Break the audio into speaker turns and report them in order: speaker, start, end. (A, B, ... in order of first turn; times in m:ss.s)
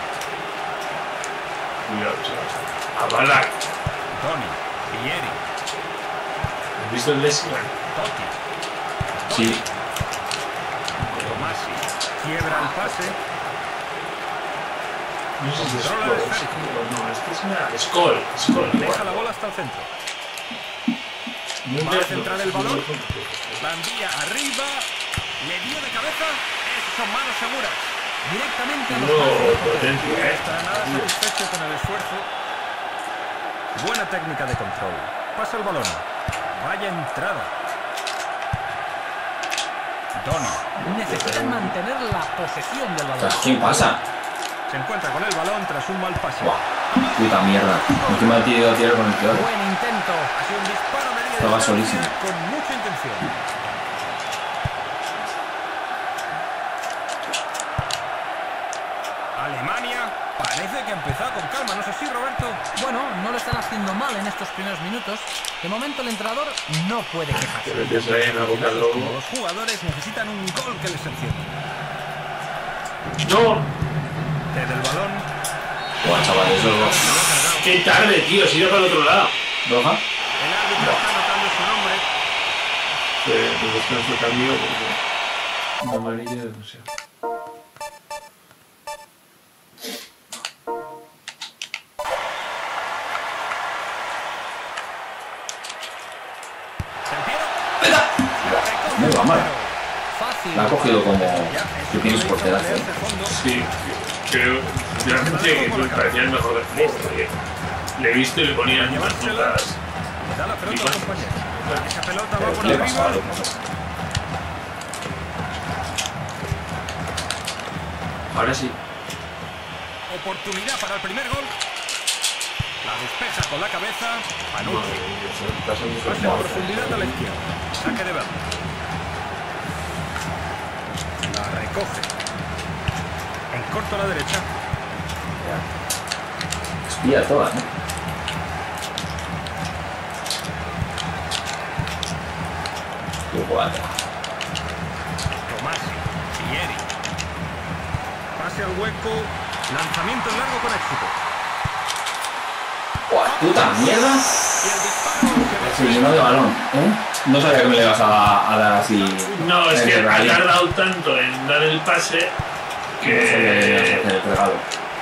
0:01.8-0:03.6 A
0:04.1-0:05.4 B
0:06.8-0:07.7 A
0:07.9-0:08.4 B
0:09.2-0:09.6 B
0:11.0-0:11.6 A
0:11.3-0:13.2 B
0:15.4-0:19.2 A
0:15.6-0:16.7 B
0:18.7-0:19.9 B
0:21.6-0:23.6 A
0:21.8-0:22.8 B
0:23.6-0:24.8 B
0:25.4-0:28.0 B
0:28.2-0:30.0 C
0:28.9-0:31.1 A
0:29.6-0:32.3 B
0:33.7-0:37.5 B
0:40.1-0:40.7 B
0:40.8-0:41.7 A
0:40.8-0:43.9 C
0:43.2-0:44.0 D
0:44.7-0:48.5 B
0:47.1-0:49.5 D
0:49.3-0:50.3 C
0:50.3-0:53.3 B
0:51.4-0:52.1 D
0:59.4-1:02.6 B
1:02.8-1:08.9 C
1:07.4-1:09.1 A
1:08.5-1:11.5 B
1:13.2-1:13.7 A
1:14.5-1:15.3 B
1:16.0-1:17.1 D
1:16.2-1:17.7 B
1:17.6-1:19.3 A
1:19.6-1:20.0 D
1:20.4-1:22.0 B
1:23.2-1:25.0 A
1:25.8-1:26.9 A
1:37.1-1:37.6 B
1:37.8-1:39.5 D
1:38.4-1:39.8 B
1:40.1-1:41.3 C
1:40.5-1:42.9 D
1:41.2-1:43.4 B
1:43.2-1:47.4 A
1:45.0-1:47.1 B
1:48.0-1:49.8 A
1:48.6-1:53.2 B
1:50.6-1:51.9 A
1:52.4-1:53.7 D
1:58.3-1:58.8 A
2:00.1-2:01.5 B
2:02.8-2:05.0 B
2:04.6-2:07.2 A
2:06.0-2:08.5 B
2:11.2-2:12.1 B
2:13.5-2:14.5 B
2:15.4-2:15.6 D
2:16.8-2:17.7 D
2:23.3-2:24.0 D
2:25.5-2:26.9 B
2:28.4-2:31.2 B
2:33.1-2:34.3 D
2:33.2-2:36.5 B
2:35.6-2:40.5 D
2:38.7-2:39.4 B
2:39.3-2:42.4 A
2:43.0-2:44.0 A
2:43.0-2:44.6 D